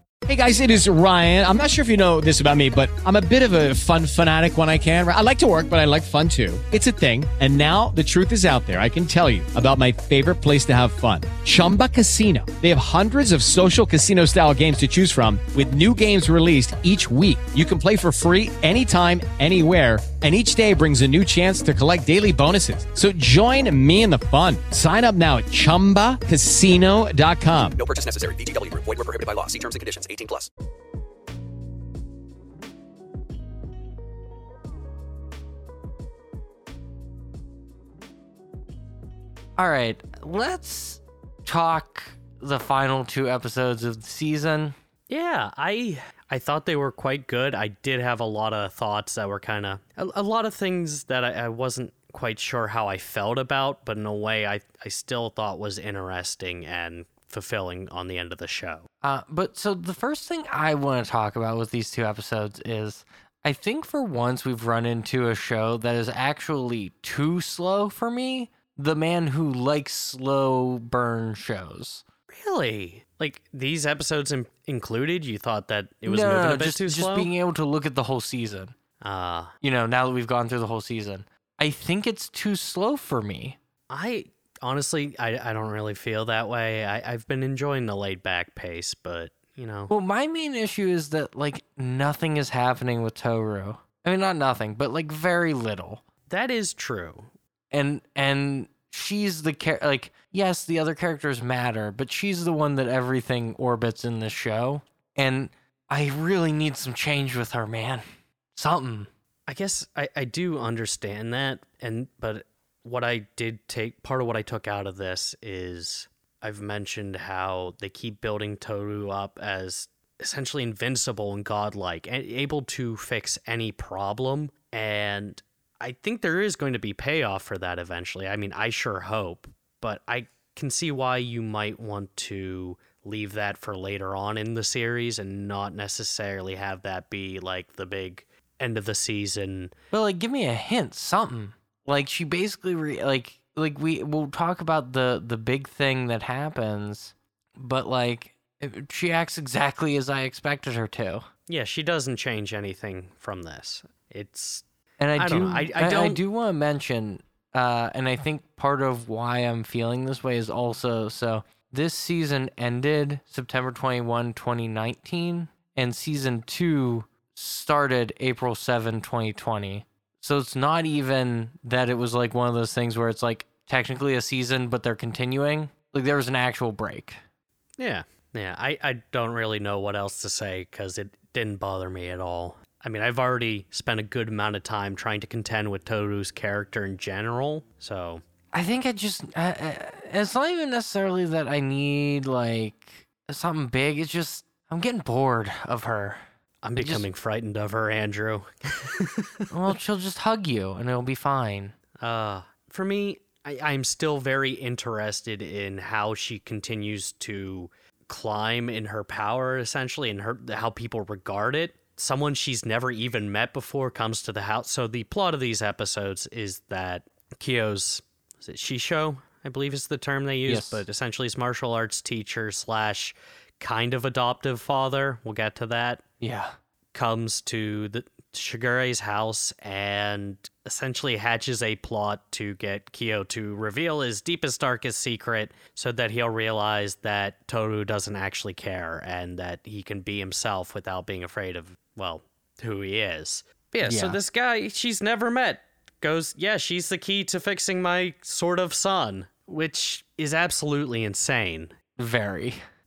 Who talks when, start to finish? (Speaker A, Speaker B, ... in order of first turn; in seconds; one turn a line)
Speaker A: 0.2-27.8
Speaker B: 27.8-30.5
Speaker C: 39.6-44.8
Speaker D: 45.1-58.9
Speaker C: 59.0-72.0
Speaker D: 72.3-77.3
Speaker C: 76.0-78.7
Speaker D: 79.0-79.5
Speaker C: 79.6-83.6
Speaker D: 83.9-89.9
Speaker C: 89.9-96.0
Speaker D: 96.3-97.3
Speaker C: 97.7-108.0
Speaker C: 108.5-109.1
Speaker D: 109.5-139.7
Speaker C: 139.9-151.3
Speaker D: 151.5-154.6
Speaker C: 155.0-177.2
Speaker D: 155.2-156.2
Speaker D: 177.8-188.2
Speaker C: 188.5-196.2
Speaker D: 196.6-199.4
Speaker C: 196.8-197.1
Speaker C: 199.5-201.7
Speaker D: 202.0-226.0
Speaker C: 220.4-220.8
Speaker C: 226.2-226.6
Speaker D: 226.9-251.7
Speaker C: 243.8-244.2
Speaker C: 252.0-252.6